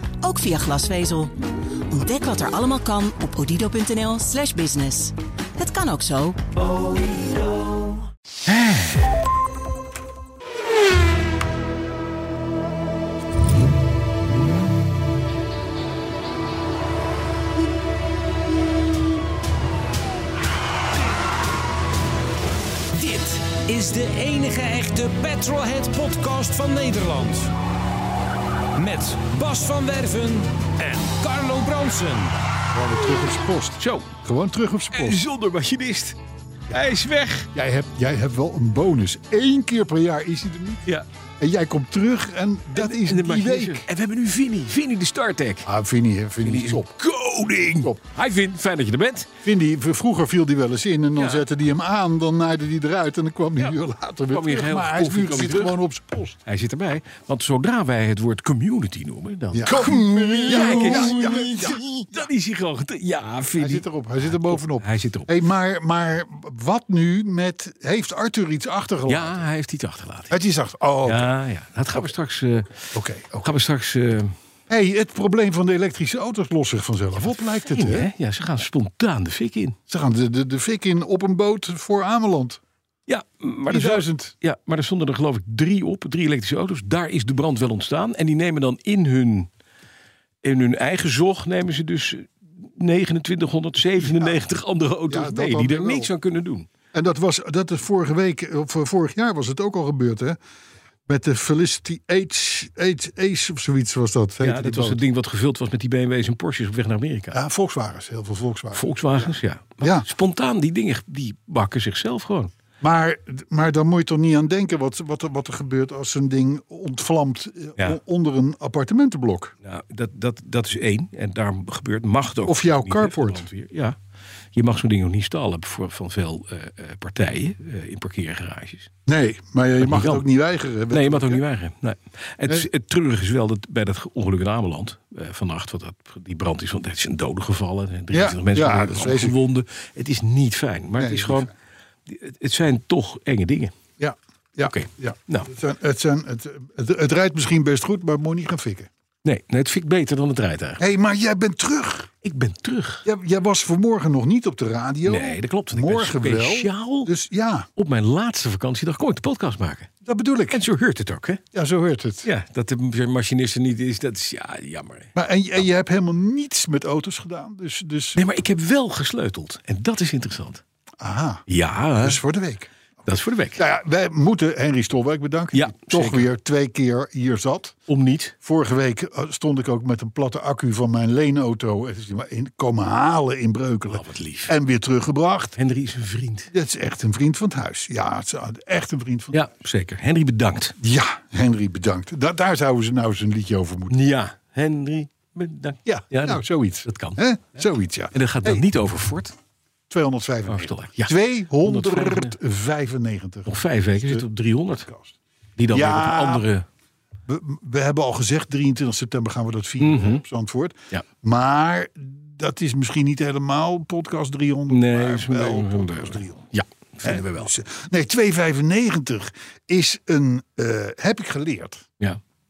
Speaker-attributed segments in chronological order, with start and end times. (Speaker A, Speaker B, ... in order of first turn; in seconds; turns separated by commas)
Speaker A: 0.2-1.3, Speaker A: 1.9-6.5, Speaker B: 8.5-9.2, Speaker C: 22.9-27.5, Speaker C: 28.8-32.4, Speaker D: 32.7-35.2, Speaker B: 33.8-34.1, Speaker B: 34.9-36.2, Speaker B: 36.7-37.5, Speaker D: 37.5-40.8, Speaker D: 41.4-43.9, Speaker B: 42.8-45.7, Speaker D: 45.6-46.9, Speaker B: 46.4-49.3, Speaker D: 49.4-56.4, Speaker B: 51.2-51.5, Speaker B: 54.3-55.8, Speaker B: 56.5-65.3, Speaker D: 59.5-62.2, Speaker D: 63.6-69.5, Speaker B: 69.1-70.4, Speaker D: 70.3-71.3, Speaker B: 71.1-74.3, Speaker D: 72.9-73.5, Speaker D: 74.7-78.1, Speaker B: 77.4-79.8, Speaker D: 79.9-82.6, Speaker B: 83.1-89.5, Speaker D: 83.7-84.3, Speaker B: 90.4-96.7, Speaker D: 94.0-94.4, Speaker D: 95.1-96.1, Speaker D: 96.9-100.4, Speaker D: 101.1-105.0, Speaker B: 104.4-107.4, Speaker D: 107.3-110.1, Speaker B: 108.8-112.5, Speaker D: 112.8-119.5, Speaker B: 119.6-124.0, Speaker D: 122.5-123.5, Speaker B: 124.5-128.9, Speaker D: 129.1-131.4, Speaker B: 129.8-130.2, Speaker B: 130.9-141.5, Speaker D: 138.1-139.4, Speaker D: 141.0-141.5, Speaker B: 142.1-143.7, Speaker D: 144.0-148.9, Speaker B: 144.6-145.5, Speaker B: 149.2-150.8, Speaker D: 150.8-152.1, Speaker B: 152.2-153.1, Speaker D: 153.1-157.7, Speaker B: 155.1-157.1, Speaker B: 157.8-159.9, Speaker D: 160.0-160.6, Speaker B: 160.5-161.4, Speaker D: 161.5-162.3, Speaker B: 162.2-165.1, Speaker D: 165.2-168.2, Speaker B: 168.2-170.6, Speaker D: 171.0-171.4, Speaker B: 171.5-172.2, Speaker D: 172.0-172.7, Speaker B: 173.1-173.6, Speaker D: 173.6-177.8, Speaker B: 175.5-176.3, Speaker B: 177.9-178.3, Speaker D: 178.4-185.6, Speaker B: 183.9-184.5, Speaker B: 185.6-186.5, Speaker D: 186.5-189.4, Speaker B: 189.3-190.8, Speaker D: 190.8-194.0, Speaker B: 193.9-197.2, Speaker D: 195.9-198.7, Speaker B: 198.1-199.3, Speaker D: 199.9-204.2, Speaker B: 200.5-202.4, Speaker B: 203.5-204.9, Speaker D: 204.9-205.2, Speaker B: 205.6-206.7, Speaker D: 205.7-206.5, Speaker D: 207.3-216.5, Speaker B: 209.8-210.2, Speaker B: 214.7-217.5, Speaker D: 217.0-221.9